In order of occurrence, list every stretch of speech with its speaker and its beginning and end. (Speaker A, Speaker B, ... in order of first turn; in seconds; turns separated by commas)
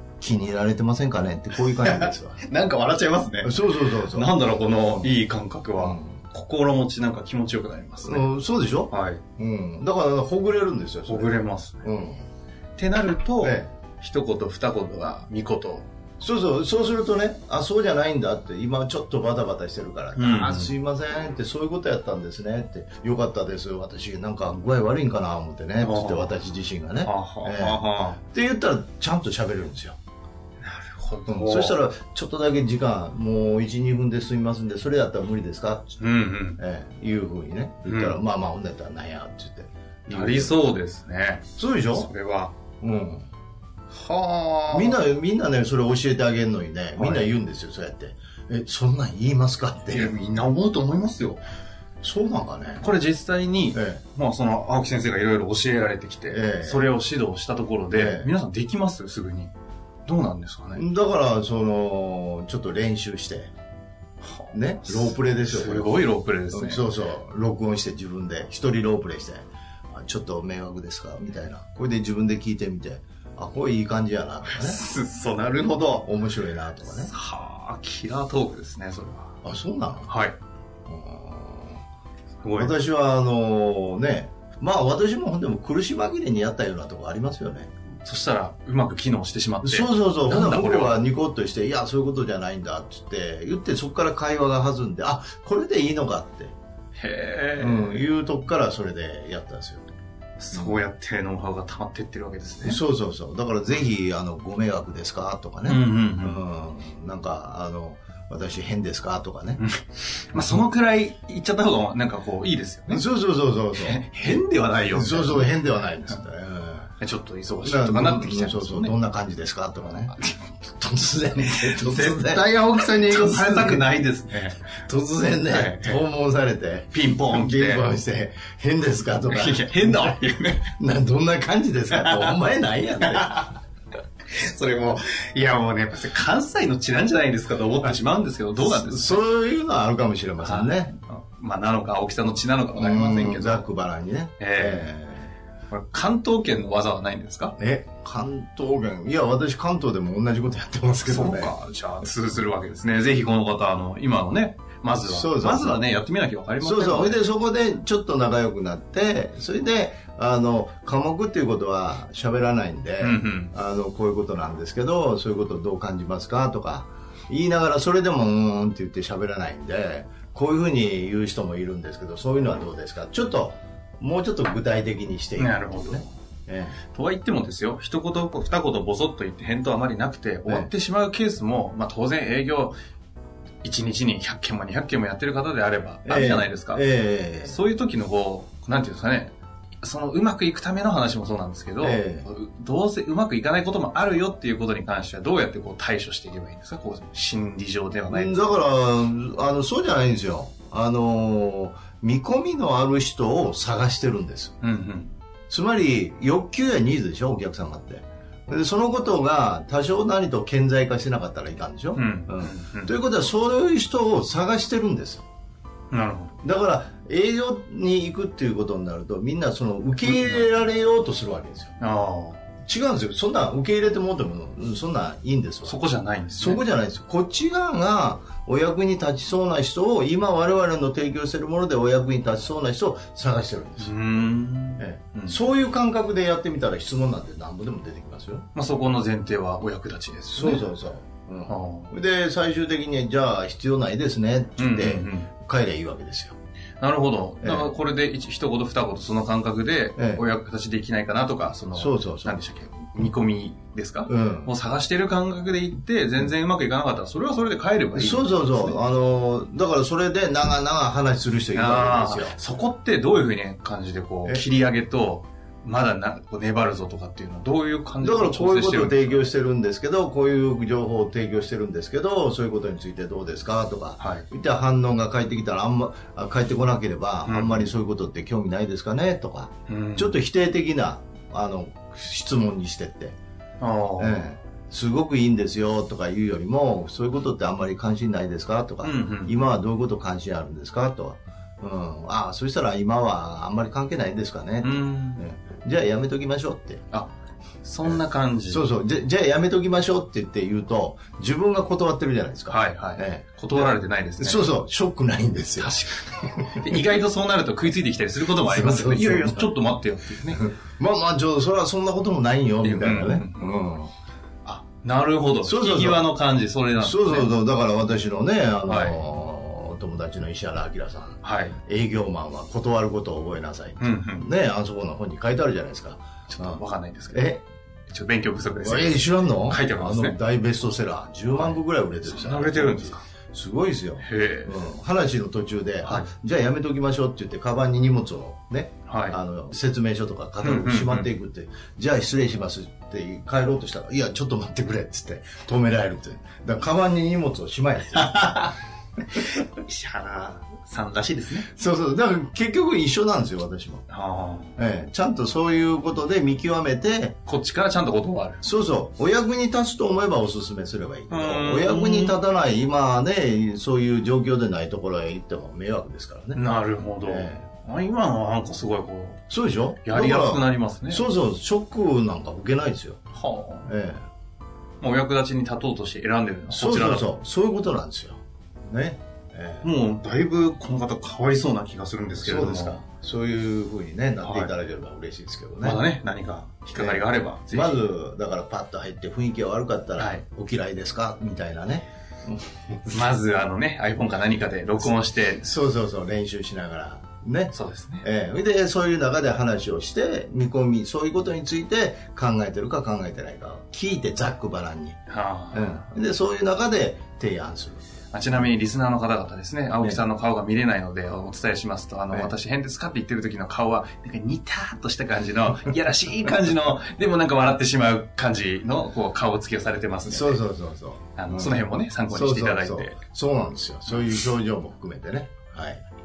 Speaker A: 0.2-2.4, Speaker B: 1.6-8.3, Speaker A: 3.4-5.2, Speaker A: 5.8-6.2, Speaker A: 8.0-12.2, Speaker B: 8.9-9.2, Speaker B: 11.1-11.8, Speaker B: 12.8-15.9, Speaker A: 13.4-13.7, Speaker A: 16.2-30.0, Speaker B: 20.1-20.7, Speaker B: 25.8-26.4, Speaker B: 27.0-28.2, Speaker B: 30.6-31.8, Speaker A: 31.3-36.0, Speaker B: 36.0-36.6, Speaker A: 36.6-40.7, Speaker B: 37.8-38.2, Speaker B: 40.1-42.5, Speaker A: 41.5-42.1, Speaker A: 42.8-43.3, Speaker B: 43.9-45.0, Speaker A: 44.7-50.1, Speaker B: 47.0-47.3, Speaker B: 49.9-51.4, Speaker A: 52.0-52.9, Speaker B: 52.8-59.5, Speaker A: 53.7-54.0, Speaker A: 56.3-56.9, Speaker A: 57.9-58.3, Speaker B: 60.0-60.9, Speaker A: 60.7-63.5, Speaker B: 64.2-66.8, Speaker A: 64.5-74.8, Speaker B: 74.5-76.1, Speaker A: 75.9-77.1, Speaker B: 76.9-79.3, Speaker A: 79.4-80.1, Speaker B: 80.1-80.4, Speaker A: 80.9-81.8, Speaker B: 82.4-82.7, Speaker A: 82.5-87.7, Speaker B: 88.0-91.0, Speaker A: 89.6-96.5, Speaker B: 96.9-98.0, Speaker A: 97.6-99.8, Speaker B: 100.4-102.8, Speaker A: 100.5-100.8, Speaker A: 102.6-109.6, Speaker B: 105.7-106.4, Speaker B: 109.6-113.0, Speaker A: 112.9-114.0, Speaker B: 113.7-115.5, Speaker A: 114.9-116.9, Speaker B: 117.0-118.9, Speaker A: 117.6-120.2, Speaker A: 120.8-124.0, Speaker B: 121.4-124.6, Speaker A: 124.8-133.6, Speaker B: 125.5-126.0, Speaker B: 126.9-127.8, Speaker B: 129.3-130.7, Speaker B: 131.9-132.4, Speaker B: 133.0-133.4, Speaker B: 134.3-139.2, Speaker A: 138.6-140.9, Speaker B: 140.4-143.7, Speaker A: 142.7-145.3, Speaker B: 144.4-144.9, Speaker B: 145.7-147.6, Speaker A: 147.6-151.5, Speaker B: 151.1-157.2, Speaker A: 155.0-155.8, Speaker A: 156.6-176.8, Speaker B: 163.0-163.5, Speaker B: 175.4-176.1, Speaker B: 176.9-182.8, Speaker B: 183.6-186.8, Speaker A: 186.0-187.6, Speaker B: 187.4-198.7, Speaker A: 191.8-192.3, Speaker A: 198.1-204.6, Speaker B: 204.6-205.1, Speaker A: 205.5-215.2, Speaker B: 211.9-212.9, Speaker B: 215.9-216.4, Speaker A: 216.4-221.7, Speaker B: 221.8-222.4, Speaker A: 222.6-225.8, Speaker B: 225.6-226.6, Speaker A: 226.3-234.0, Speaker B: 233.8-235.4, Speaker A: 234.8-238.5, Speaker B: 238.5-240.7, Speaker A: 240.3-246.3, Speaker B: 241.5-241.9, Speaker B: 244.6-245.3, Speaker B: 246.8-258.8, Speaker A: 247.4-247.7, Speaker A: 249.9-250.2, Speaker A: 251.7-252.4, Speaker A: 254.1-254.5, Speaker A: 257.9-262.4, Speaker B: 261.5-269.3, Speaker A: 268.0-283.1, Speaker B: 274.0-274.2, Speaker B: 277.2-277.7, Speaker B: 279.7-280.2, Speaker B: 283.6-284.2, Speaker A: 284.0-296.8, Speaker B: 288.8-289.4, Speaker B: 294.6-295.3, Speaker B: 297.6-298.7, Speaker A: 297.8-306.8, Speaker B: 302.5-304.5, Speaker B: 305.6-310.5, Speaker A: 308.4-309.5, Speaker A: 310.3-313.9, Speaker B: 312.6-313.5, Speaker B: 314.4-317.4, Speaker A: 315.4-316.2, Speaker A: 316.8-327.4, Speaker B: 318.6-319.0, Speaker B: 321.2-321.6, Speaker B: 323.8-324.3, Speaker B: 326.3-327.4, Speaker B: 327.9-330.2, Speaker A: 328.6-348.5, Speaker B: 331.3-333.0, Speaker B: 334.0-334.6, Speaker B: 338.9-339.2, Speaker B: 340.4-341.1, Speaker B: 349.3-351.5, Speaker A: 351.4-353.8, Speaker B: 353.9-354.5, Speaker A: 354.6-357.2, Speaker B: 357.2-358.4, Speaker A: 358.4-366.4, Speaker B: 361.1-362.2, Speaker B: 366.3-369.2, Speaker A: 367.0-367.4, Speaker A: 369.3-373.0, Speaker B: 369.8-371.0, Speaker B: 373.1-373.7, Speaker A: 373.7-374.0, Speaker B: 374.8-377.1, Speaker A: 376.5-379.7, Speaker B: 379.6-382.8, Speaker A: 382.2-385.8, Speaker B: 384.2-384.5, Speaker B: 385.6-387.8, Speaker A: 386.8-393.1, Speaker B: 390.0-390.2, Speaker B: 392.9-395.5, Speaker A: 395.4-405.0, Speaker B: 397.5-398.0, Speaker B: 405.1-405.8, Speaker A: 405.5-407.8, Speaker B: 408.1-420.4, Speaker A: 409.8-410.0, Speaker A: 420.1-425.8, Speaker B: 421.1-423.0